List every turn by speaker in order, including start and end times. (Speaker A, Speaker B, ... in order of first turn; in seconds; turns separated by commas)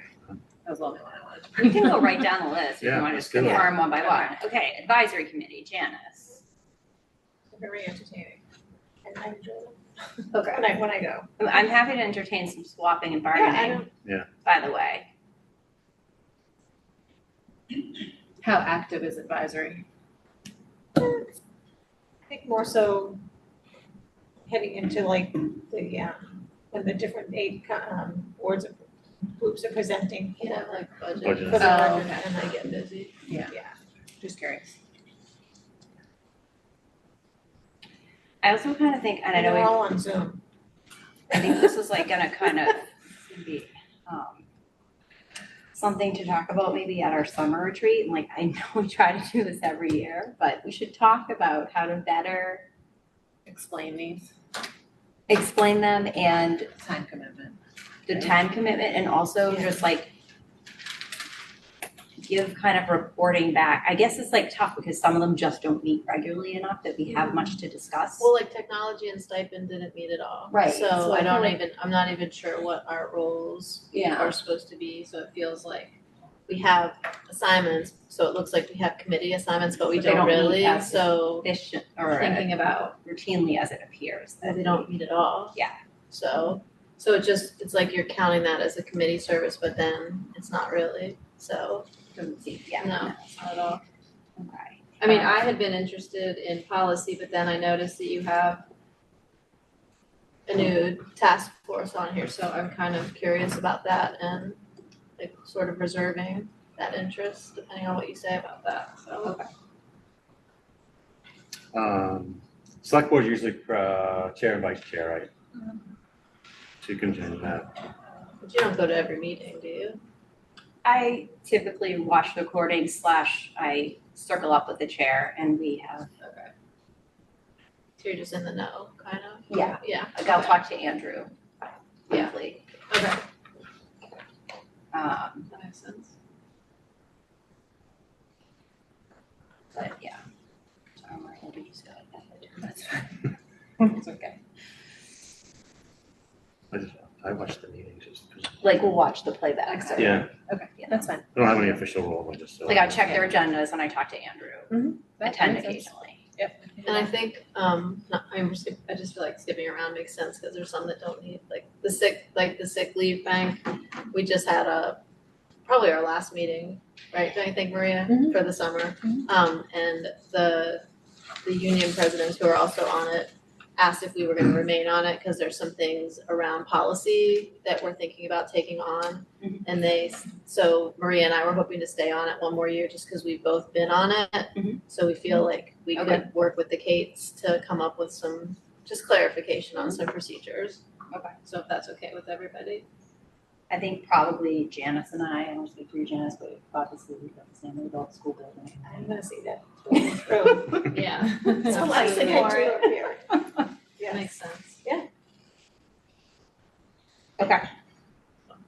Speaker A: 0.7-2.1, Speaker B: 1.6-6.4, Speaker C: 2.8-3.7, Speaker A: 4.0-4.3, Speaker D: 7.5-8.4, Speaker D: 9.0-11.3, Speaker B: 10.3-10.8, Speaker B: 11.4-13.8, Speaker D: 13.3-13.9, Speaker B: 14.4-15.1, Speaker A: 18.4-19.9, Speaker D: 22.3-23.2, Speaker D: 24.5-30.8, Speaker E: 30.4-33.1, Speaker C: 31.2-31.7, Speaker D: 31.5-32.0, Speaker A: 31.6-32.3, Speaker A: 33.3-33.5, Speaker A: 34.2-34.8, Speaker B: 38.4-39.8, Speaker D: 39.3-40.4, Speaker B: 41.3-44.5, Speaker B: 45.7-52.6, Speaker A: 53.5-54.3, Speaker B: 55.3-56.7, Speaker A: 56.7-58.4, Speaker B: 58.1-60.1, Speaker B: 62.2-68.3, Speaker E: 68.2-81.5, Speaker B: 70.5-71.6, Speaker B: 73.9-74.4, Speaker B: 79.9-84.9, Speaker E: 82.0-83.0, Speaker E: 84.4-85.6, Speaker E: 86.1-91.9, Speaker B: 92.2-93.3, Speaker E: 92.8-93.8, Speaker B: 94.4-95.4, Speaker E: 95.0-98.7, Speaker E: 100.5-104.6, Speaker E: 105.2-109.4, Speaker B: 109.2-109.5, Speaker C: 111.7-115.3, Speaker C: 116.8-117.7, Speaker E: 118.4-120.0, Speaker B: 120.8-126.1, Speaker E: 126.2-126.5, Speaker E: 128.0-130.6, Speaker B: 129.5-132.7, Speaker E: 132.9-133.2, Speaker B: 134.9-135.5, Speaker E: 135.5-136.1, Speaker B: 139.7-140.2, Speaker B: 141.0-142.9, Speaker C: 146.7-148.7, Speaker B: 148.6-150.3, Speaker A: 149.7-151.5, Speaker C: 150.0-150.3, Speaker B: 150.8-151.1, Speaker C: 151.3-153.0, Speaker B: 152.7-156.2, Speaker A: 154.7-155.9, Speaker A: 156.7-157.1, Speaker E: 156.8-165.0, Speaker E: 165.7-170.8, Speaker E: 171.4-190.8, Speaker B: 185.9-186.3, Speaker E: 191.4-192.9, Speaker B: 193.7-199.1, Speaker D: 198.8-203.3, Speaker E: 200.8-202.9, Speaker B: 201.7-202.8, Speaker E: 204.1-204.8, Speaker B: 207.4-207.7